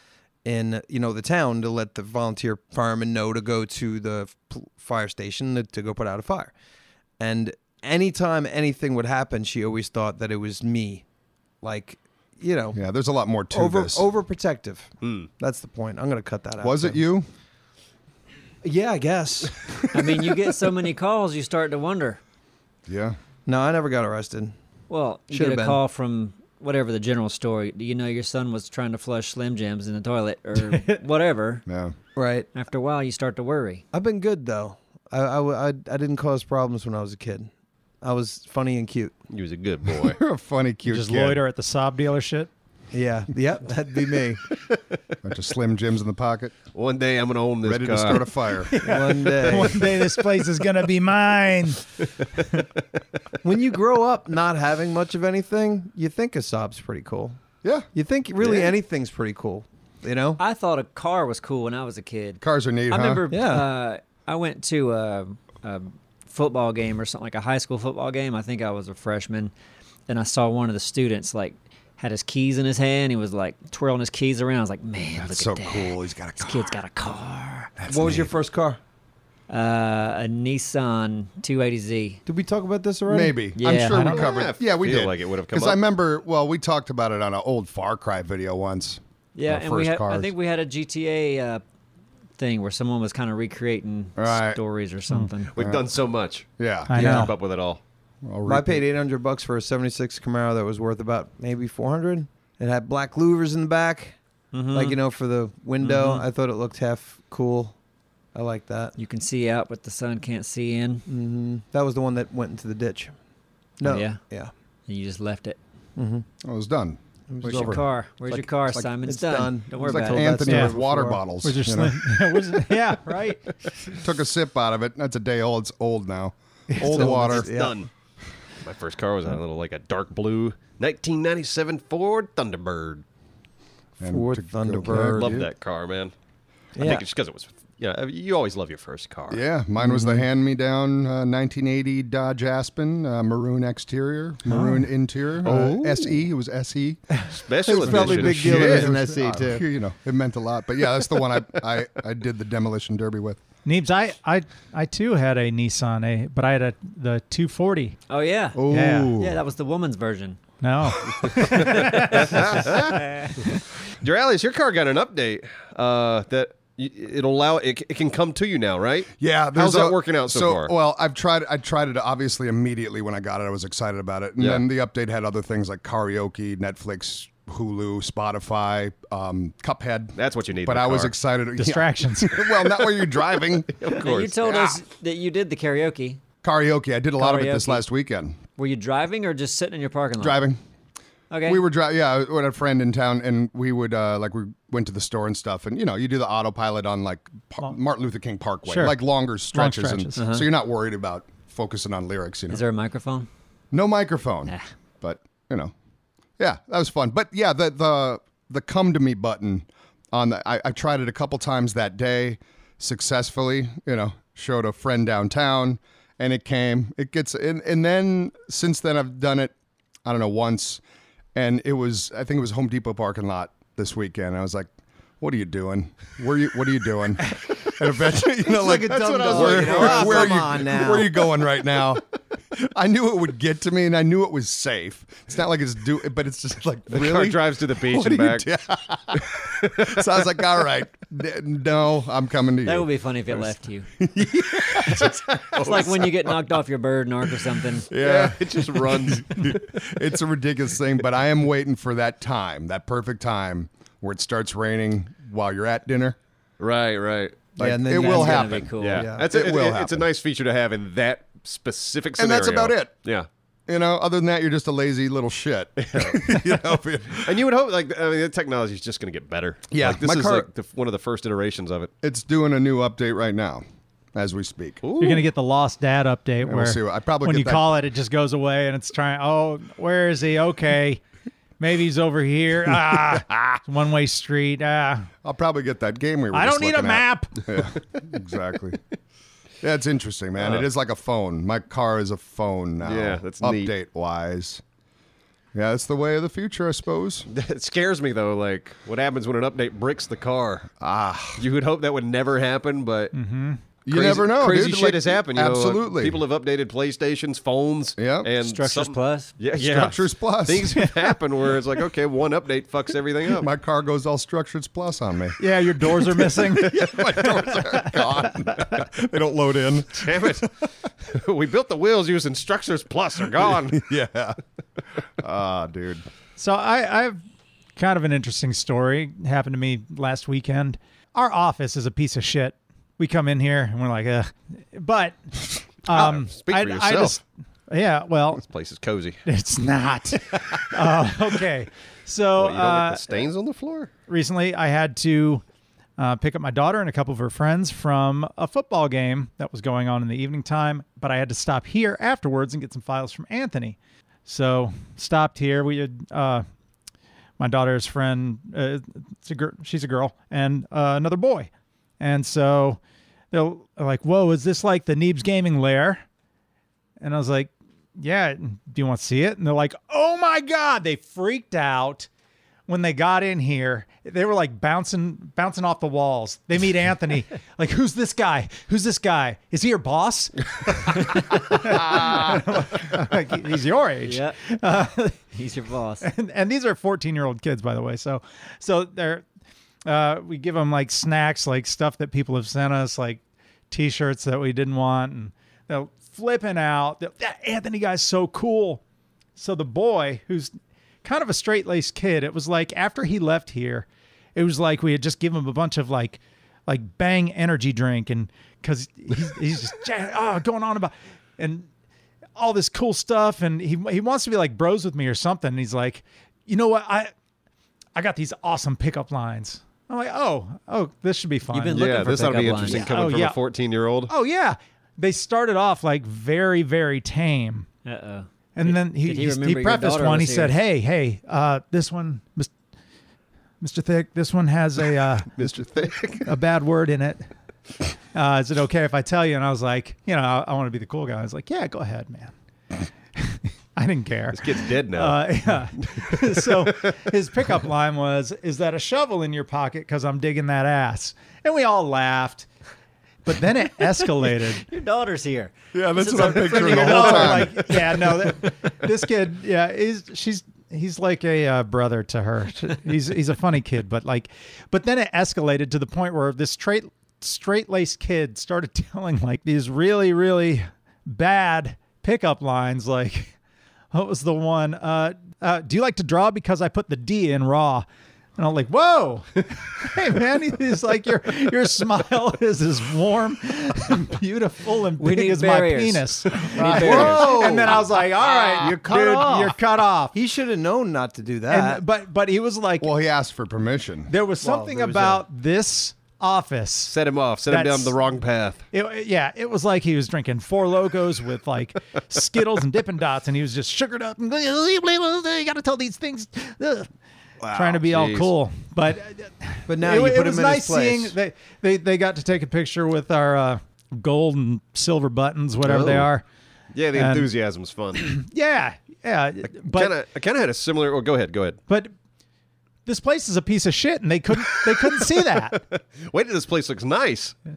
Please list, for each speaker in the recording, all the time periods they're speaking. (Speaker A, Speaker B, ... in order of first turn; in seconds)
Speaker A: 0.4-6.5, 7.2-11.0, 11.6-12.8, 13.5-17.0, 18.6-20.3, 23.4-24.5, 25.3-25.8, 32.1-32.5, 33.9-37.5, 38.0-39.1, 42.9-44.4, 48.8-49.9, 53.4-57.4, 57.9-60.4, 63.3-63.7, 77.9-78.8, 82.2-83.4, 97.0-97.3, 98.5-104.2, 104.7-107.8, 108.3-108.9, 111.1-113.1, 113.8-114.5, 116.0-116.2, 117.3-121.3, 126.8-127.8, 134.1-135.4, 136.8-137.0, 139.8-140.2, 147.3-149.6, 228.4-231.2, 257.6-259.2, 269.7-270.4, 486.7-489.6, 490.1-491.8, 494.4-495.2, 509.7-511.1
Speaker B: 12.7-14.1, 16.6-17.2, 22.9-23.2, 31.7-31.9, 39.9-41.4, 45.2-46.5, 47.6-48.8, 62.4-63.2, 75.2-76.8, 77.8-78.3, 83.1-90.3, 94.2-94.6, 95.6-95.9, 96.6-97.0, 98.2-98.8, 116.4-117.8, 119.8-122.5, 123.9-127.5, 134.0-135.5, 139.3-147.0, 147.8-153.4, 158.6-159.4, 169.2-184.8, 186.4-188.4, 190.2-190.6, 191.4-202.6, 203.7-205.7, 206.4-220.8, 221.3-246.3, 247.9-256.2, 257.6-260.1, 262.2-262.9, 263.7-267.4, 269.8-270.4, 272.0-274.8, 276.4-277.7, 285.2-288.8, 289.6-294.6, 295.5-297.3, 300.8-301.4, 303.9-306.2, 308.0-308.3, 309.6-310.8, 313.3-320.5, 323.4-324.4, 325.2-326.0, 455.7-457.8, 486.6-487.3, 492.8-494.1
Speaker C: 15.0-15.3, 39.3-40.2, 46.7-48.4, 84.1-85.8, 95.5-97.8, 126.8-127.9, 128.6-133.0, 134.9-136.1, 136.8-139.4, 145.4-146.1, 147.4-148.9, 162.1-170.7, 180.2-181.1, 183.0-184.3, 229.3-230.6, 236.9-238.5, 239.6-240.0, 245.6-245.9, 248.0-250.1, 256.6-257.4, 258.8-263.3, 265.8-271.9, 274.8-275.2, 290.4-290.7, 292.8-293.7, 297.3-300.7, 301.4-303.1, 303.9-313.5, 319.9-323.8, 335.9-337.2, 338.4-339.2, 342.4-343.9, 421.7-424.1, 435.4-436.3, 444.3-445.2, 445.8-446.9, 496.9-498.6, 507.4-508.3, 515.6-516.1, 516.7-518.2, 519.5-521.6, 524.4-527.3
Speaker D: 19.9-22.2, 24.9-31.6, 32.5-33.8, 60.4-69.5, 70.1-77.7, 79.5-82.2, 83.5-84.2, 89.3-91.6, 92.4-95.5, 104.5-105.0, 105.8-106.2, 109.0-111.0, 113.8-114.2, 114.9-115.6, 117.4-120.4, 158.1-160.4, 161.6-163.3, 183.9-186.2, 187.2-187.8, 188.6-190.4, 191.3-191.6, 200.2-200.5, 202.5-203.3, 242.6-243.9, 244.8-247.9, 257.9-259.1, 308.4-309.4, 384.0-384.4, 385.3-386.1, 421.5-422.9, 427.8-430.6, 454.5-457.6, 485.0-487.4
Speaker E: 30.6-31.0, 40.9-42.5, 48.7-52.6, 83.9-84.3, 96.9-97.3, 120.5-120.7, 121.4-123.5, 153.6-158.0, 158.7-159.1, 160.6-162.8, 181.6-182.4, 198.6-200.3, 275.0-281.0, 281.6-285.1, 286.3-287.5, 303.1-303.6, 315.4-318.6, 326.4-327.2, 327.8-335.2, 335.8-338.4, 339.2-343.3, 344.1-345.4, 346.0-356.4, 357.4-361.5, 362.0-362.8, 363.3-366.0, 367.0-372.1, 372.7-385.2, 386.0-389.2, 389.9-398.8, 399.4-411.7, 412.4-417.1, 417.9-421.8, 422.6-423.4, 424.1-427.7, 428.6-432.5, 433.6-435.3, 436.2-437.2, 438.1-442.3, 443.1-452.5, 453.2-454.6, 456.1-473.3, 473.9-490.1, 491.5-492.9, 494.1-496.9, 497.5-497.9, 498.7-506.9, 507.5-516.2, 516.9-517.3, 518.0-519.9, 522.9-525.6